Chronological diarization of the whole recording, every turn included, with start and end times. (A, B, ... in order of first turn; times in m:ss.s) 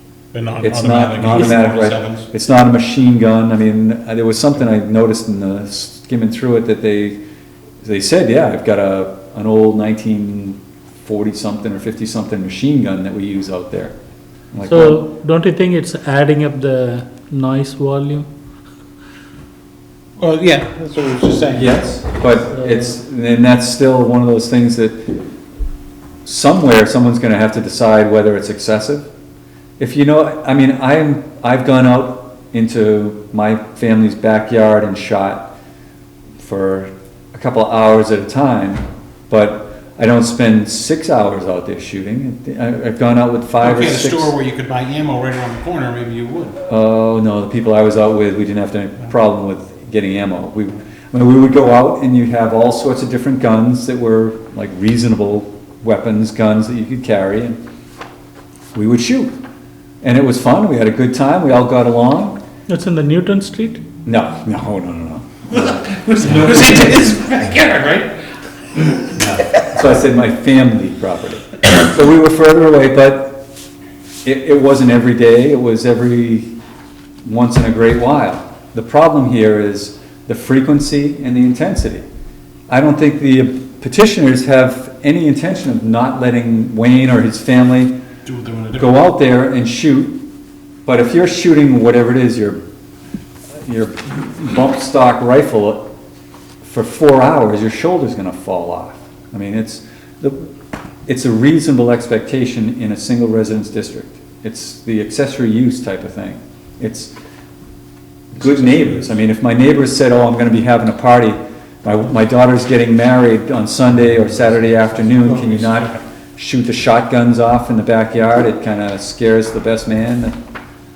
0:00.3-0:02.3 A
0:00.6-0:07.2 B
0:07.8-0:13.9 B
0:14.5-0:15.0 B
0:14.6-0:18.3 C
0:20.2-0:21.8 A
0:21.5-0:25.1 B
0:26.2-0:29.1 B
0:29.8-0:35.5 B
0:36.4-0:44.3 B
0:43.6-0:46.6 A
0:46.6-0:57.6 B
0:58.7-0:59.4 B
1:00.0-1:02.4 B
1:02.7-1:03.8 C
1:04.0-1:06.7 B
1:05.5-1:08.2 A
1:08.8-1:09.4 A
1:09.2-1:13.4 B
1:14.2-1:16.5 B
1:17.2-1:22.0 B
1:22.7-1:28.0 B
1:28.2-1:29.0 A
1:28.8-1:30.2 B
1:30.8-1:32.6 B
1:33.6-1:35.9 B
1:36.6-1:40.5 B
1:41.0-1:47.1 B
1:48.3-2:00.3 B
1:54.8-1:56.0 A